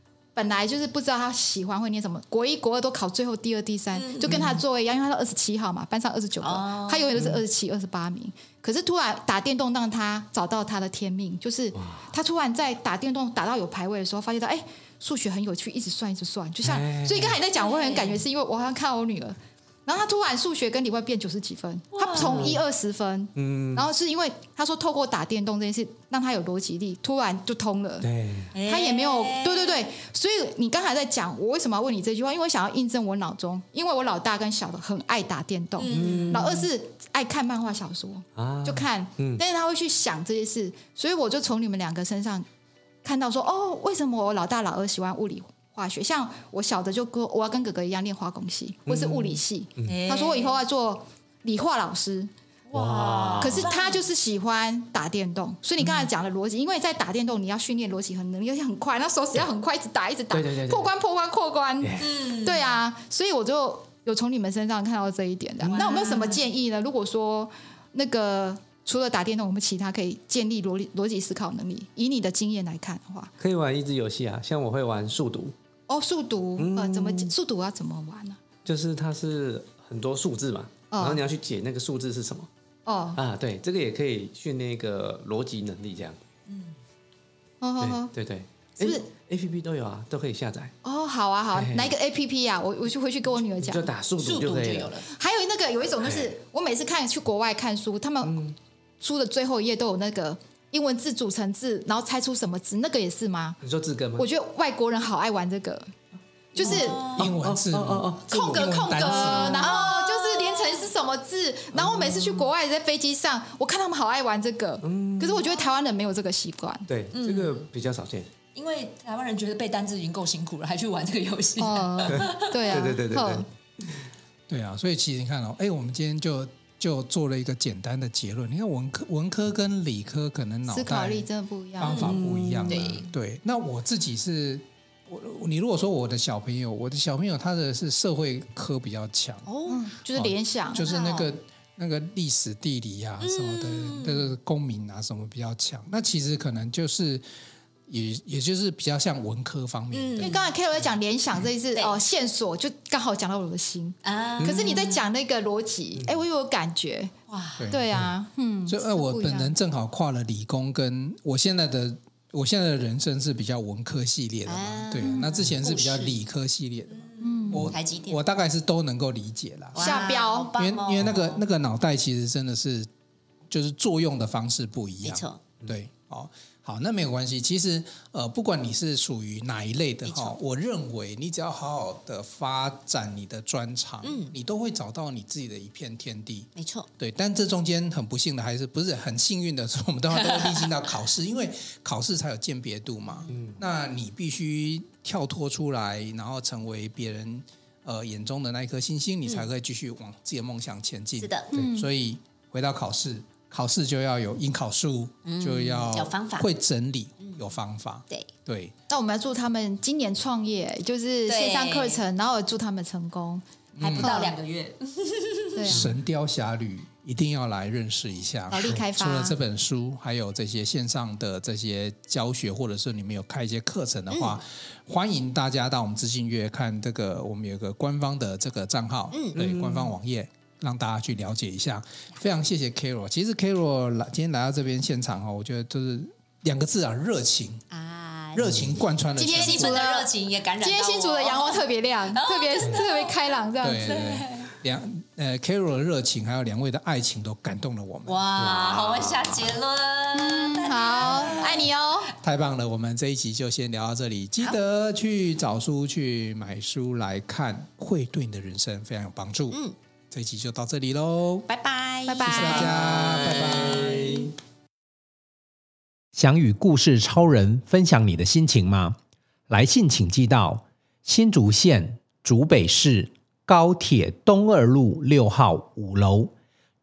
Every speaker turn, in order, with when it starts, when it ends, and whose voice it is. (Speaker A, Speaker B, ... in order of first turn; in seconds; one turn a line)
Speaker A: 0.3-28.1
Speaker B: 3.9-4.6
Speaker B: 6.4-7.2
Speaker C: 7.1-7.4
Speaker C: 11.7-12.1
Speaker C: 16.6-17.4
Speaker B: 17.5-18.2
Speaker B: 21.9-22.6
Speaker C: 22.2-22.6
Speaker C: 23.4-23.9
Speaker C: 28.0-28.5
Speaker B: 28.5-29.9
Speaker A: 28.6-42.5
Speaker B: 35.8-36.6
Speaker C: 35.9-36.6
Speaker C: 38.4-39.4
Speaker A: 43.0-52.3
Speaker C: 48.9-50.0
Speaker B: 49.8-50.6
Speaker B: 52.7-54.0
Speaker C: 52.7-53.7
Speaker A: 53.4-73.3
Speaker C: 60.3-60.9
Speaker C: 61.8-62.1
Speaker B: 62.0-62.8
Speaker B: 65.6-66.4
Speaker C: 73.4-75.5
Speaker A: 75.9-78.4
Speaker C: 76.6-77.3
Speaker C: 78.6-82.5
Speaker A: 80.9-81.2
Speaker A: 82.8-83.2
Speaker C: 83.2-86.2
Speaker B: 86.5-86.7
Speaker A: 87.6-88.1
Speaker C: 87.8-90.7
Speaker A: 88.8-89.0
Speaker A: 90.8-93.9
Speaker C: 91.5-91.9
Speaker C: 93.6-94.9
Speaker B: 94.2-95.1
Speaker A: 95.1-98.4
Speaker C: 96.0-96.3
Speaker C: 98.2-98.5
Speaker A: 99.0-103.6
Speaker C: 103.6-104.2
Speaker A: 104.2-105.9
Speaker A: 106.5-107.0
Speaker B: 106.5-107.3
Speaker C: 106.6-108.7
Speaker D: 107.1-109.7
Speaker A: 108.3-116.9
Speaker B: 109.0-110.9
Speaker C: 111.7-112.3
Speaker C: 114.8-115.4
Speaker C: 116.9-118.3
Speaker B: 117.1-117.7
Speaker B: 118.5-123.0
Speaker A: 121.6-123.4
Speaker C: 122.1-123.4
Speaker D: 124.5-131.2
Speaker A: 130.7-132.1
Speaker D: 131.8-139.5
Speaker B: 131.8-133.1
Speaker C: 132.0-132.9
Speaker B: 139.4-139.9
Speaker A: 139.7-140.8
Speaker D: 140.1-147.2
Speaker B: 140.8-141.3
Speaker B: 143.2-144.3
Speaker D: 147.9-150.4
Speaker B: 149.9-150.4
Speaker A: 150.2-157.1
Speaker B: 154.0-155.0
Speaker B: 157.3-157.7
Speaker D: 157.6-158.1
Speaker A: 157.7-159.5
Speaker D: 158.7-169.9
Speaker B: 164.4-166.2
Speaker A: 165.0-165.4
Speaker B: 166.9-168.2
Speaker A: 167.2-167.7
Speaker B: 169.7-171.4
Speaker A: 169.8-170.5
Speaker D: 170.6-172.9
Speaker D: 173.5-208.7
Speaker B: 175.0-175.4
Speaker B: 180.0-180.3
Speaker B: 184.0-184.3
Speaker B: 186.6-186.9
Speaker B: 190.1-190.6
Speaker C: 193.3-193.6
Speaker B: 201.2-201.5
Speaker A: 201.5-201.9
Speaker B: 205.2-206.5
Speaker A: 208.9-213.4
Speaker B: 211.2-212.0
Speaker D: 213.8-214.1
Speaker B: 213.8-215.8
Speaker A: 214.0-214.3
Speaker A: 215.6-215.9
Speaker D: 215.7-237.6
Speaker A: 218.5-219.3
Speaker B: 224.1-224.4
Speaker B: 229.1-229.4
Speaker C: 229.3-229.9
Speaker B: 237.7-238.6
Speaker D: 238.3-239.8
Speaker A: 239.2-244.1
Speaker B: 239.2-243.2
Speaker D: 243.6-248.2
Speaker B: 243.7-244.5
Speaker B: 248.1-251.7
Speaker C: 248.4-249.5
Speaker A: 250.1-252.1
Speaker D: 252.2-259.6
Speaker B: 259.5-259.8
Speaker D: 260.1-261.5
Speaker B: 261.5-262.8
Speaker A: 262.1-262.8
Speaker D: 262.2-264.2
Speaker C: 262.9-264.3
Speaker E: 266.1-269.0
Speaker E: 269.5-276.3